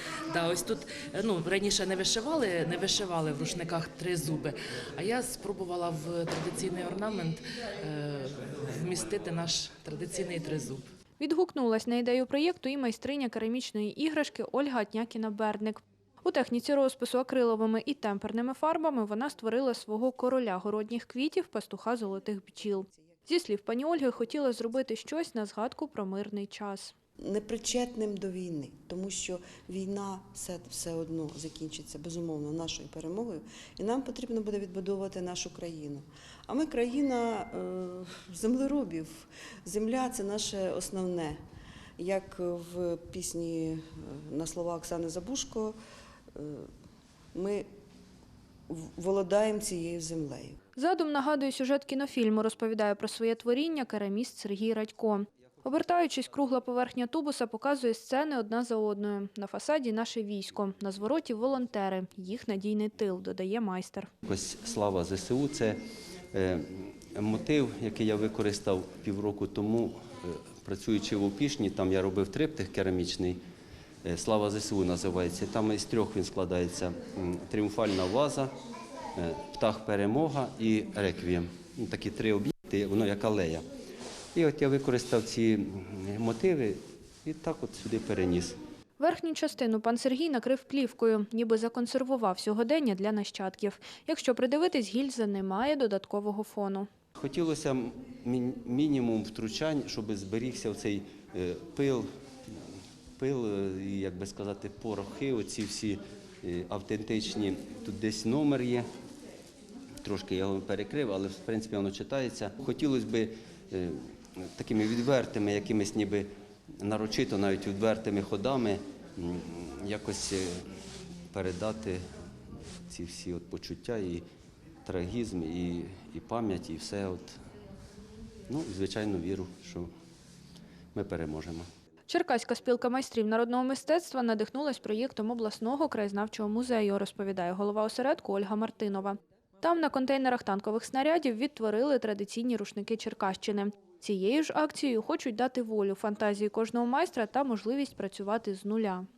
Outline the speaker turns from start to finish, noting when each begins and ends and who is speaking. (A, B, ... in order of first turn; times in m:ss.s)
0:00.3-0:10.9 A
0:11.2-0:26.9 B
0:27.2-0:41.4 C
0:42.0-0:45.7 C
0:46.4-0:46.7 C
0:47.3-0:47.6 C
0:48.7-0:50.6 C
0:50.8-1:04.1 B
1:04.2-1:05.8 D
1:06.3-1:13.4 D
1:14.0-1:18.5 D
1:19.2-1:23.6 D
1:24.3-1:28.6 D
1:29.0-1:36.9 B
1:37.2-1:42.0 D
1:43.2-1:48.8 D
1:50.0-1:53.9 D
1:54.6-1:56.2 D
1:56.8-2:00.6 D
2:01.3-2:02.0 D
2:02.9-2:04.2 D
2:04.8-2:07.4 D
2:08.5-2:09.9 D
2:10.9-2:11.6 D
2:12.1-2:29.0 B